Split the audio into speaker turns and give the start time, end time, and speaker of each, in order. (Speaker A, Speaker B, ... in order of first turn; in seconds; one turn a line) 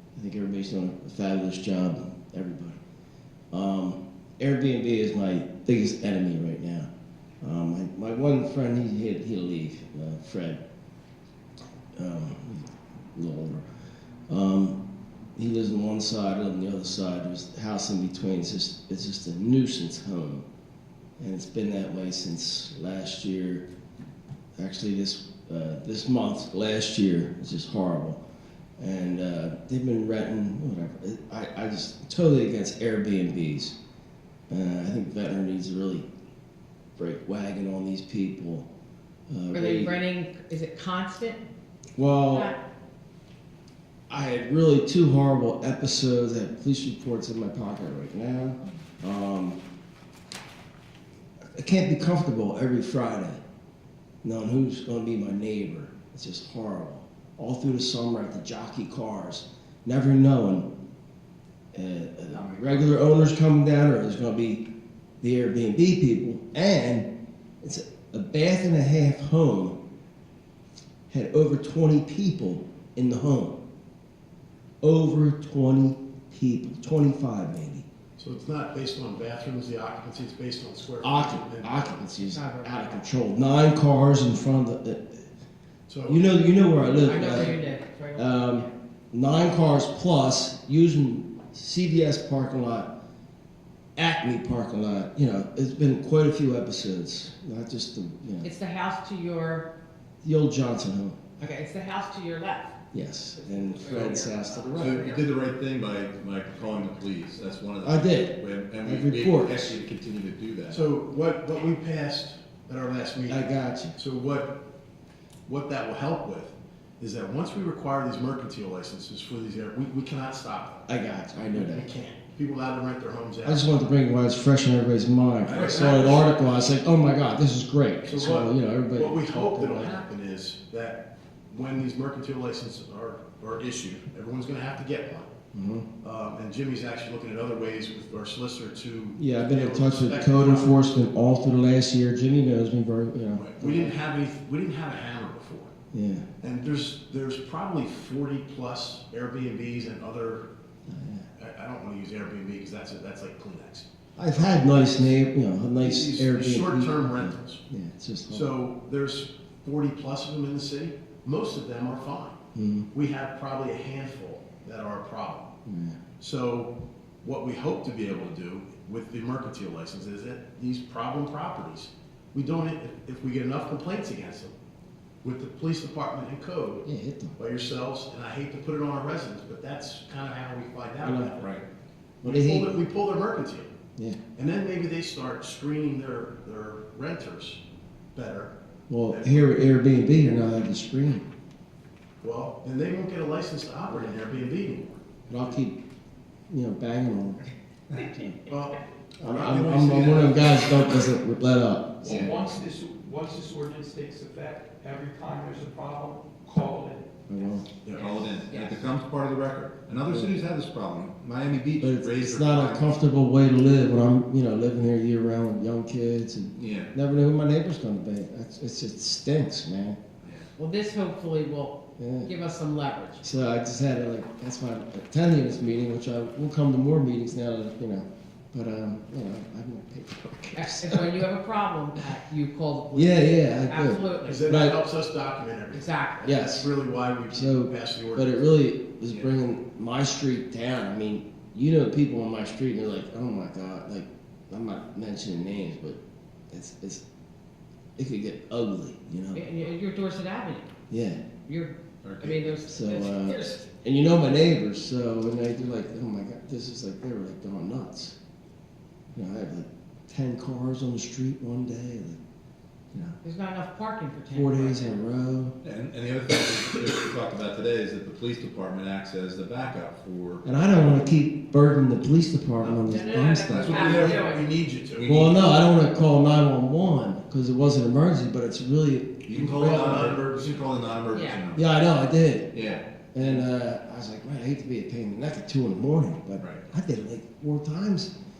Speaker A: 0.1-2.8
Speaker A: 3.5-6.9
Speaker A: 7.4-10.6
Speaker A: 11.9-13.6
Speaker A: 14.3-14.8
Speaker A: 15.3-20.4
Speaker A: 21.2-23.6
Speaker A: 24.6-28.2
Speaker A: 28.8-33.7
Speaker A: 34.5-36.1
Speaker A: 37.0-38.7
Speaker A: 39.3-40.0
Speaker B: 39.5-41.4
Speaker A: 42.0-42.5
Speaker B: 42.3-42.6
Speaker A: 44.1-49.6
Speaker A: 51.5-53.4
Speaker A: 54.2-60.7
Speaker A: 61.7-64.6
Speaker A: 65.2-67.1
Speaker A: 67.6-69.8
Speaker A: 71.1-73.6
Speaker A: 74.8-77.8
Speaker C: 78.2-82.0
Speaker A: 81.0-85.2
Speaker B: 82.2-83.0
Speaker C: 85.9-86.3
Speaker A: 86.0-87.6
Speaker B: 87.0-88.6
Speaker C: 87.1-87.4
Speaker A: 88.2-92.9
Speaker A: 94.0-98.5
Speaker B: 98.4-99.7
Speaker A: 100.2-101.3
Speaker B: 101.4-102.7
Speaker A: 102.9-105.0
Speaker B: 103.5-105.2
Speaker D: 104.8-110.8
Speaker A: 107.8-109.8
Speaker C: 110.7-114.5
Speaker A: 113.2-114.0
Speaker C: 115.5-120.8
Speaker A: 120.9-121.9
Speaker C: 121.5-123.7
Speaker A: 123.4-130.0
Speaker C: 125.4-126.5
Speaker C: 128.0-135.3
Speaker A: 135.5-135.9
Speaker C: 136.0-140.8
Speaker A: 139.2-143.9
Speaker C: 143.3-145.7
Speaker A: 145.9-146.3
Speaker C: 146.4-150.4
Speaker A: 150.9-151.3
Speaker C: 151.4-155.2
Speaker A: 154.2-158.5
Speaker C: 155.8-157.6
Speaker C: 158.3-162.4
Speaker A: 162.5-162.9
Speaker C: 162.9-165.5
Speaker A: 165.6-166.0
Speaker C: 166.2-174.5
Speaker C: 175.2-176.8
Speaker A: 176.8-177.4
Speaker C: 177.4-181.6
Speaker A: 181.0-181.3
Speaker D: 181.4-181.6
Speaker A: 182.2-182.8
Speaker C: 182.2-183.7
Speaker C: 184.3-187.6
Speaker C: 188.1-188.5
Speaker A: 188.9-191.2
Speaker C: 189.1-189.7
Speaker C: 192.2-195.1
Speaker A: 195.3-195.8
Speaker A: 196.5-197.4
Speaker A: 197.9-198.4
Speaker C: 198.5-200.7
Speaker A: 199.2-202.3
Speaker D: 200.4-201.0
Speaker E: 202.0-207.1
Speaker A: 207.3-207.7
Speaker C: 207.8-208.2
Speaker D: 207.9-212.9
Speaker B: 208.4-208.8
Speaker A: 210.1-210.4
Speaker A: 211.8-220.0
Speaker D: 216.6-216.9
Speaker D: 220.2-220.5
Speaker B: 220.6-223.2
Speaker A: 222.0-222.3
Speaker A: 223.2-231.2
Speaker B: 230.5-234.5
Speaker A: 232.9-234.8
Speaker C: 234.2-238.4
Speaker B: 235.7-236.2
Speaker A: 236.2-236.7
Speaker A: 237.3-246.0
Speaker A: 246.5-247.0
Speaker A: 248.0-249.4
Speaker B: 249.3-250.7
Speaker A: 250.9-251.2
Speaker B: 251.4-253.6
Speaker D: 252.0-252.6
Speaker A: 252.7-258.2
Speaker A: 259.1-262.2
Speaker A: 262.9-263.2
Speaker B: 263.2-265.0
Speaker A: 264.3-265.6
Speaker D: 265.6-270.4
Speaker A: 270.4-274.2
Speaker B: 272.9-274.4
Speaker C: 273.5-275.1
Speaker D: 273.6-274.1
Speaker D: 274.9-275.5
Speaker A: 275.0-280.1
Speaker D: 279.2-281.7
Speaker C: 279.4-280.5
Speaker B: 281.1-281.4
Speaker A: 281.5-282.5
Speaker D: 282.5-283.4
Speaker A: 283.1-288.1